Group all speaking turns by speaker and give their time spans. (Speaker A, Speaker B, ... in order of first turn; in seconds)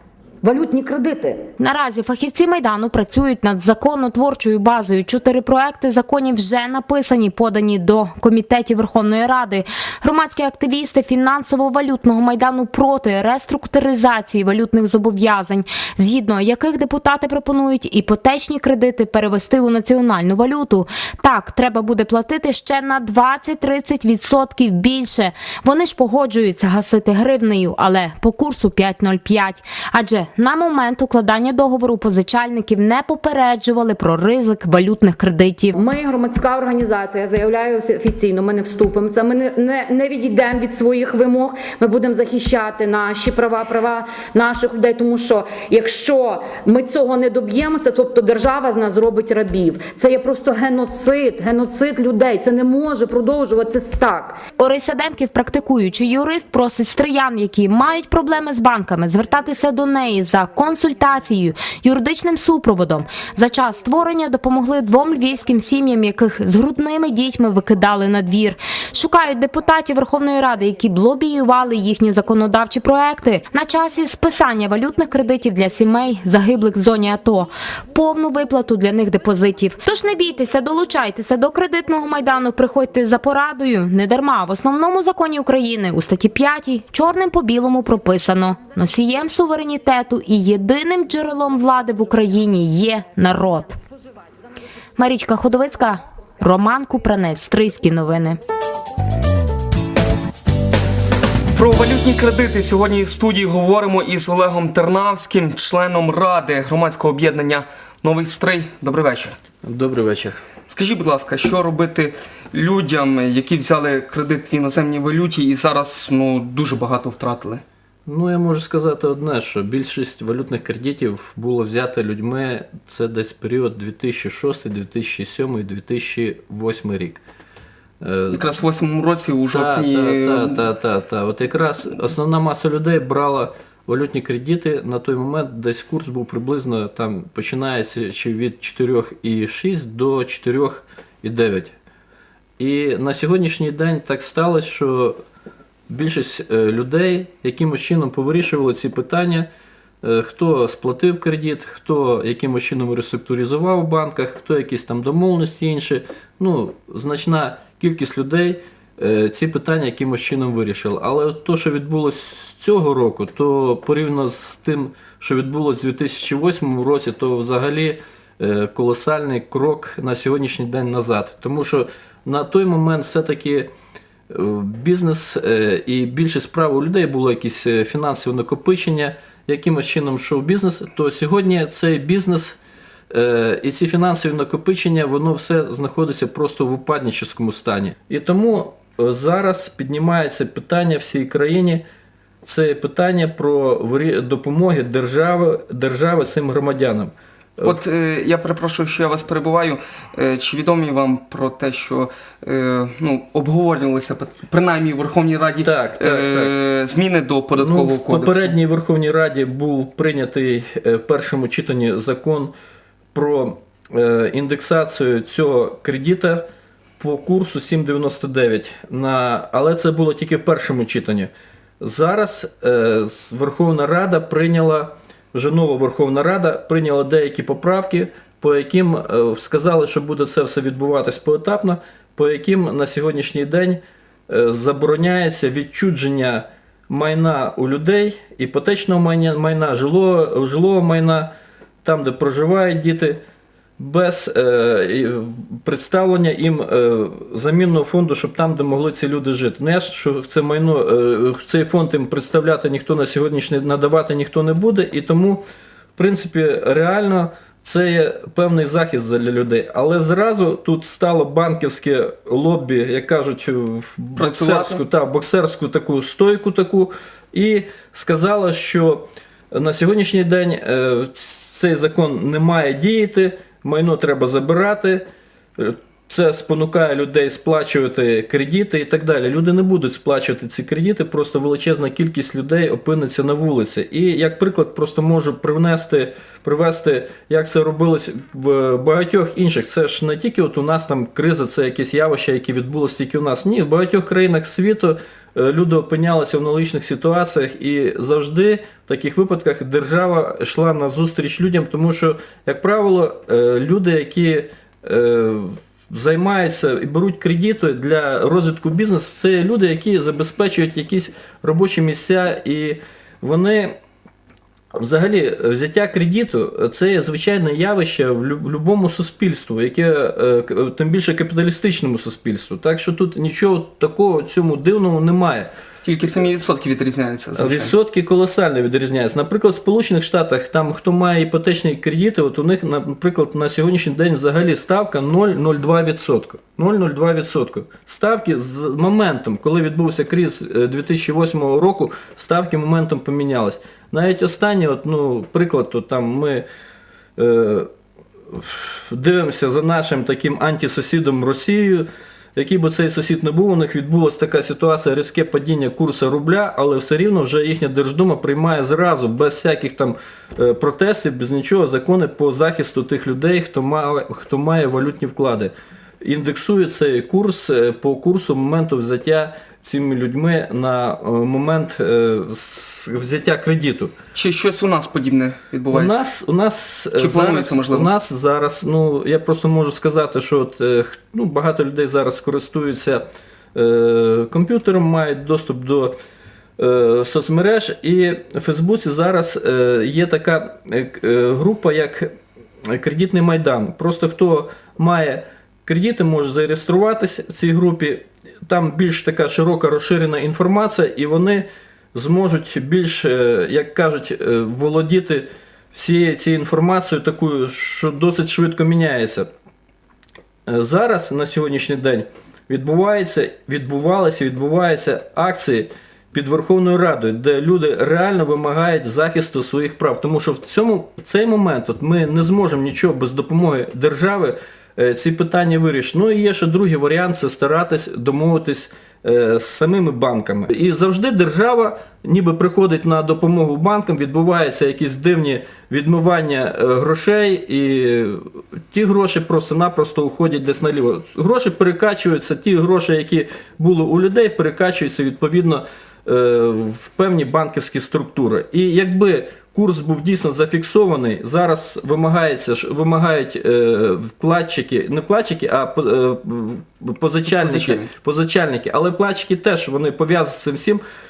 Speaker A: 0.4-1.5, 35.7-54.4
Speaker B: 1.6-35.7, 54.6-93.8, 95.0-98.4
Speaker C: 101.5-109.4, 110.7-117.6, 128.3-130.6, 197.6-208.5, 264.2-264.8, 325.8-327.7, 374.1-376.1, 376.9-377.9, 457.2-457.9
Speaker D: 109.6-110.4, 118.1-127.2, 128.0-128.4, 129.5-141.8, 142.6-145.2, 145.9-149.5, 150.0-173.7, 174.3-182.6, 183.1-191.8, 192.4-197.8, 205.6-206.5, 207.5-212.5, 213.1-216.4, 217.0-221.3, 221.8-241.3, 241.8-243.2, 243.8-255.4, 256.0-275.0, 275.6-313.8, 314.8-325.5, 327.4-346.4, 347.2-347.7, 348.3-373.9, 375.7-383.0, 383.6-385.9, 386.6-392.1, 392.7-409.3, 410.5-438.2, 438.7-460.8